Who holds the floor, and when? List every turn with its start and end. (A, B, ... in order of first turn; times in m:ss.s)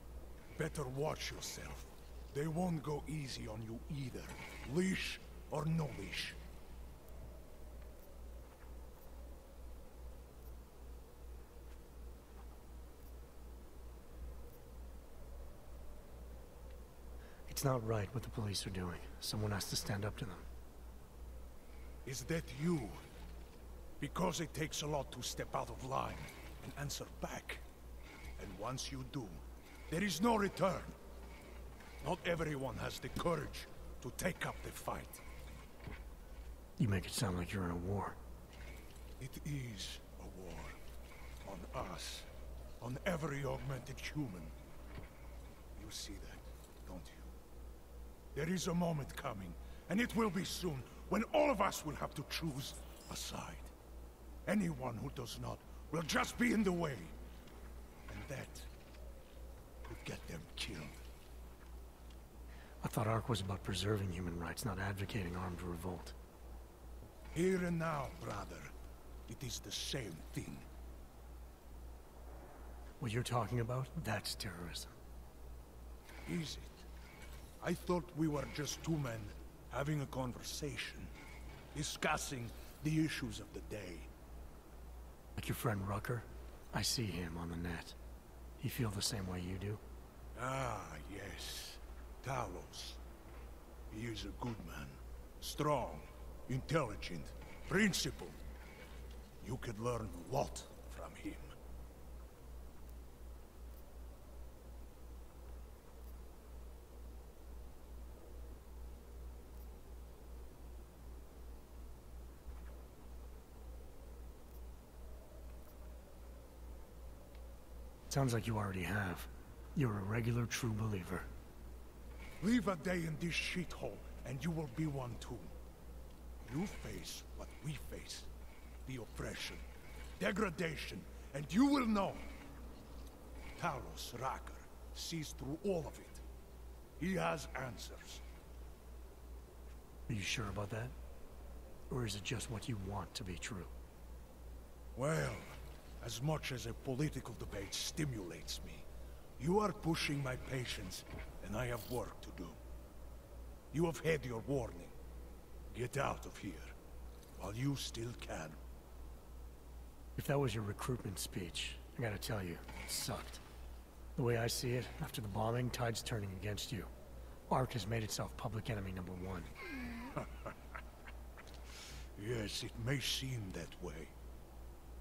0:00.6-0:06.4 A
0:17.5-0:20.5 B
0:22.0-0:23.0 A
0:24.0-0:27.6 A
0:28.4-0:30.9 A
0:32.0-0:35.2 A
0:36.8-0:38.2 B
0:39.2-0:40.8 A
0:41.4-0:42.3 A
0:42.8-0:44.5 A
0:45.8-0:47.3 A
0:48.3-0:53.7 A
0:54.4-0:57.1 A
0:58.1-0:58.7 A
0:59.8-1:01.0 A
1:02.8-1:06.2 B
1:07.3-1:08.7 A
1:09.3-1:10.6 A
1:13.0-1:14.9 B
1:16.2-1:16.8 A
1:17.6-1:21.1 A
1:21.7-1:24.1 A
1:25.4-1:27.9 B
1:28.6-1:29.8 B
1:30.3-1:33.0 A
1:33.9-1:38.4 A
1:39.4-1:41.5 A
1:58.1-2:01.3 B
2:02.4-2:05.5 A
2:06.4-2:08.3 A
2:08.8-2:09.6 A
2:10.2-2:12.3 A
2:13.6-2:16.2 A
2:17.0-2:18.2 A
2:20.1-2:20.9 B
2:21.9-2:23.7 B
2:24.9-2:28.8 A
2:29.4-2:32.6 A
2:33.7-2:34.9 A
2:35.7-2:36.7 A
2:37.4-2:38.6 A
2:40.2-2:43.4 B
2:44.2-2:46.9 B
2:47.5-2:49.5 B
2:50.1-2:50.5 A
2:52.2-2:54.1 A